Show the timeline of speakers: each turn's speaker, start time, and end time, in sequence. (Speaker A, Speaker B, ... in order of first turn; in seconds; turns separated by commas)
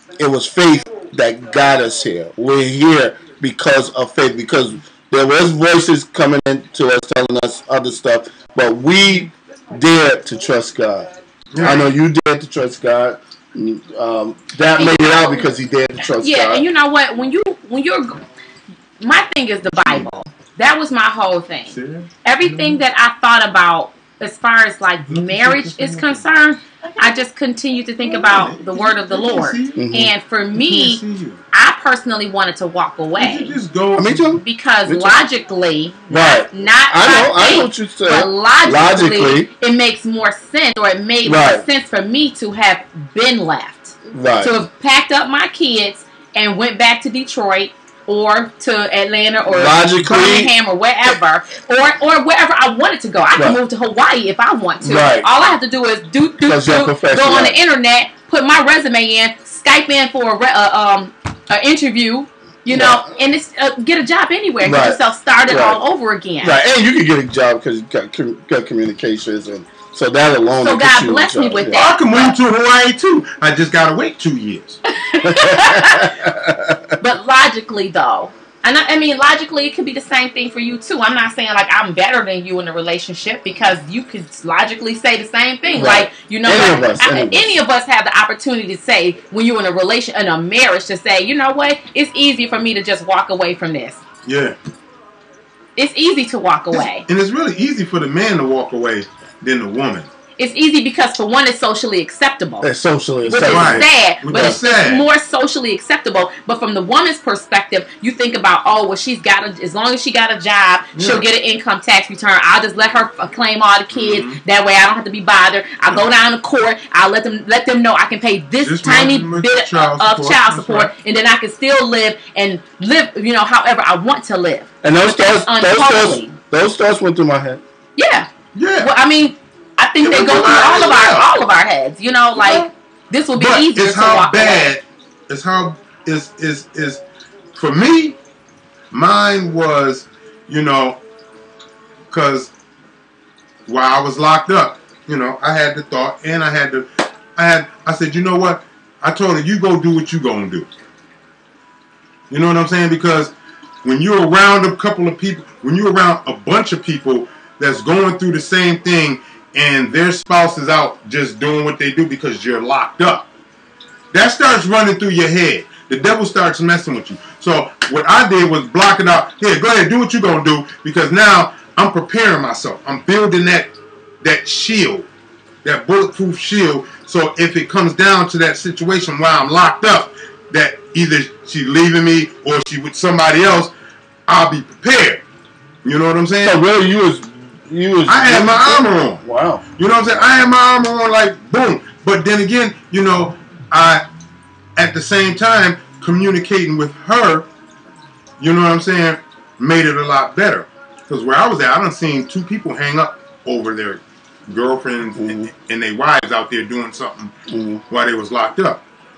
Speaker A: 0.2-16.6, Speaker B: 11.5-11.8, Speaker C: 14.8-15.6, Speaker C: 16.2-18.2, Speaker C: 19.0-31.0, Speaker B: 21.7-22.8, Speaker B: 25.1-26.2, Speaker B: 28.0-29.8, Speaker A: 29.8-30.1, Speaker B: 30.6-31.4, Speaker C: 31.5-33.6, Speaker B: 33.2-34.4, Speaker A: 34.0-35.2, Speaker C: 34.4-66.6, Speaker A: 36.1-39.5, Speaker A: 41.2-41.6, Speaker A: 44.1-44.5, Speaker A: 49.5-50.5, Speaker A: 53.3-53.6, Speaker A: 54.8-55.3, Speaker A: 56.4-57.5, Speaker A: 62.7-63.0, Speaker A: 64.6-65.8, Speaker A: 66.4-71.8, Speaker C: 70.6-72.3, Speaker B: 71.7-74.8, Speaker C: 74.9-76.1, Speaker A: 75.2-77.0, Speaker C: 77.0-94.0, Speaker A: 85.7-87.6, Speaker B: 94.2-94.6, Speaker C: 95.8-97.0, Speaker B: 96.7-100.1, Speaker C: 100.4-102.7, Speaker A: 102.6-104.6, Speaker C: 103.3-126.4, Speaker B: 103.3-105.0, Speaker B: 110.9-111.2, Speaker B: 113.9-114.4, Speaker B: 118.6-120.9, Speaker A: 124.8-127.6, Speaker C: 128.0-128.3, Speaker B: 128.5-128.9, Speaker C: 128.8-134.7, Speaker B: 130.0-131.3, Speaker B: 132.3-132.7, Speaker B: 133.3-137.0, Speaker B: 137.5-138.2, Speaker B: 138.9-141.0, Speaker B: 142.1-142.5, Speaker B: 143.7-150.7, Speaker B: 152.3-163.2, Speaker B: 164.1-175.1, Speaker B: 175.6-183.7, Speaker B: 184.3-185.2, Speaker B: 185.8-186.6, Speaker A: 186.4-189.6, Speaker B: 188.1-189.2, Speaker B: 189.8-194.0, Speaker B: 194.8-197.5, Speaker B: 198.4-207.3, Speaker A: 205.2-205.5, Speaker A: 207.5-207.8, Speaker B: 207.9-208.8